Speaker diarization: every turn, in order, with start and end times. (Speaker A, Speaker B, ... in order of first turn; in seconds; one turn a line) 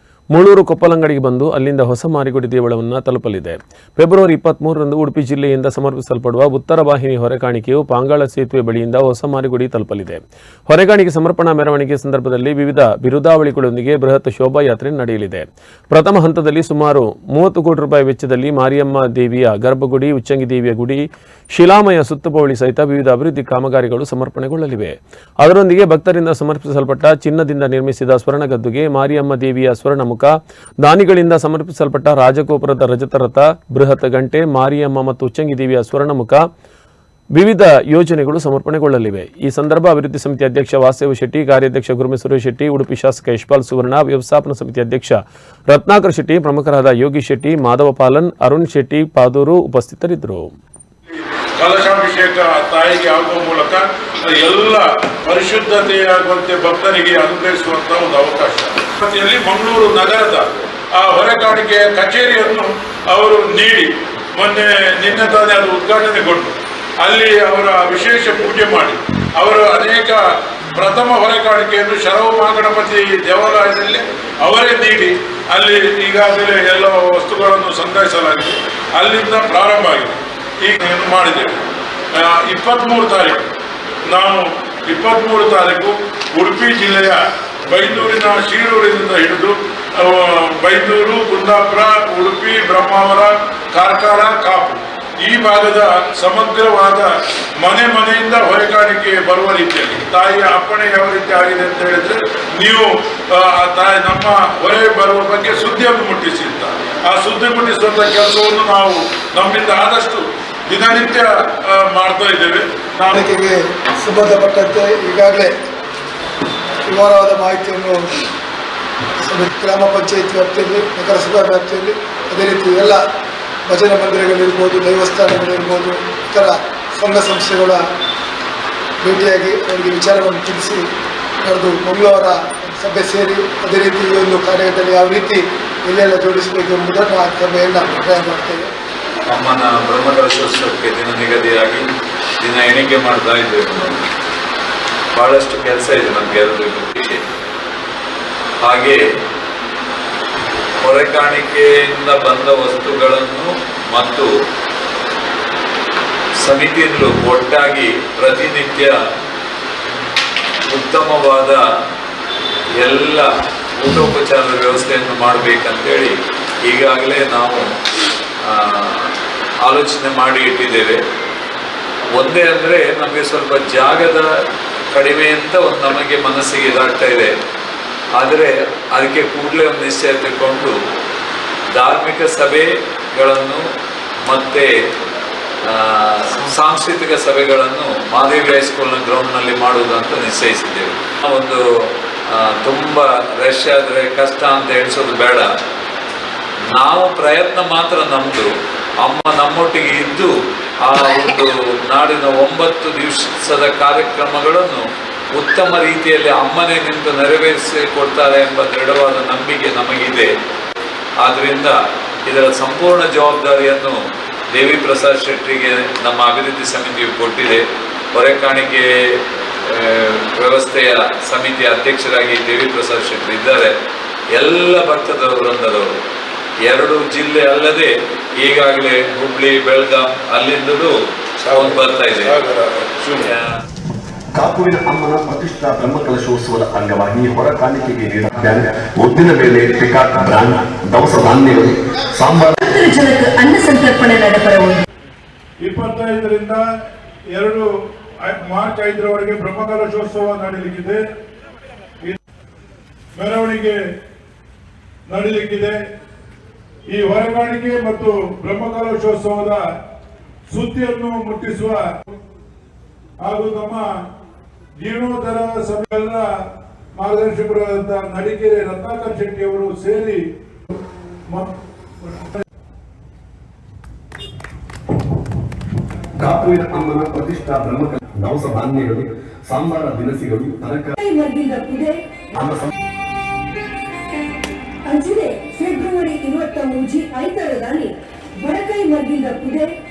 Speaker A: 0.3-36.5
Speaker A: 37.4-50.5
Speaker B: 51.1-83.5
Speaker B: 84.1-113.2
Speaker C: 113.1-115.5
Speaker C: 116.8-118.1
Speaker C: 119.2-123.0
Speaker C: 123.7-127.8
Speaker C: 129.0-130.9
Speaker C: 131.4-138.7
Speaker D: 139.3-141.9
Speaker D: 142.4-144.0
Speaker D: 145.2-147.2
Speaker D: 148.6-149.0
Speaker D: 150.8-154.3
Speaker D: 156.4-159.0
Speaker D: 160.7-161.6
Speaker D: 162.8-167.7
Speaker D: 168.4-169.1
Speaker D: 169.6-171.0
Speaker D: 172.2-174.3
Speaker D: 174.9-177.3
Speaker D: 178.2-180.8
Speaker D: 181.7-183.6
Speaker D: 184.3-184.7
Speaker D: 185.7-195.5
Speaker D: 196.8-198.5
Speaker D: 199.0-200.3
Speaker D: 200.8-204.8
Speaker D: 205.3-210.3
Speaker D: 211.2-214.0
Speaker D: 214.5-223.7
Speaker D: 224.4-225.9
Speaker D: 226.7-230.9
Speaker B: 231.4-233.3
Speaker D: 231.5-232.4
Speaker D: 233.2-233.6
Speaker E: 234.3-242.6
Speaker F: 242.6-244.8
Speaker B: 245.6-246.6
Speaker B: 247.3-247.7
Speaker B: 248.2-251.0
Speaker B: 253.2-253.8
Speaker B: 255.1-255.8
Speaker B: 256.9-259.6
Speaker B: 260.5-261.8
Speaker B: 263.2-263.9
Speaker B: 264.8-266.3
Speaker B: 267.0-270.2
Speaker B: 271.3-272.4
Speaker E: 276.2-280.9
Speaker F: 281.0-282.2
Speaker E: 282.4-282.7
Speaker F: 284.9-289.7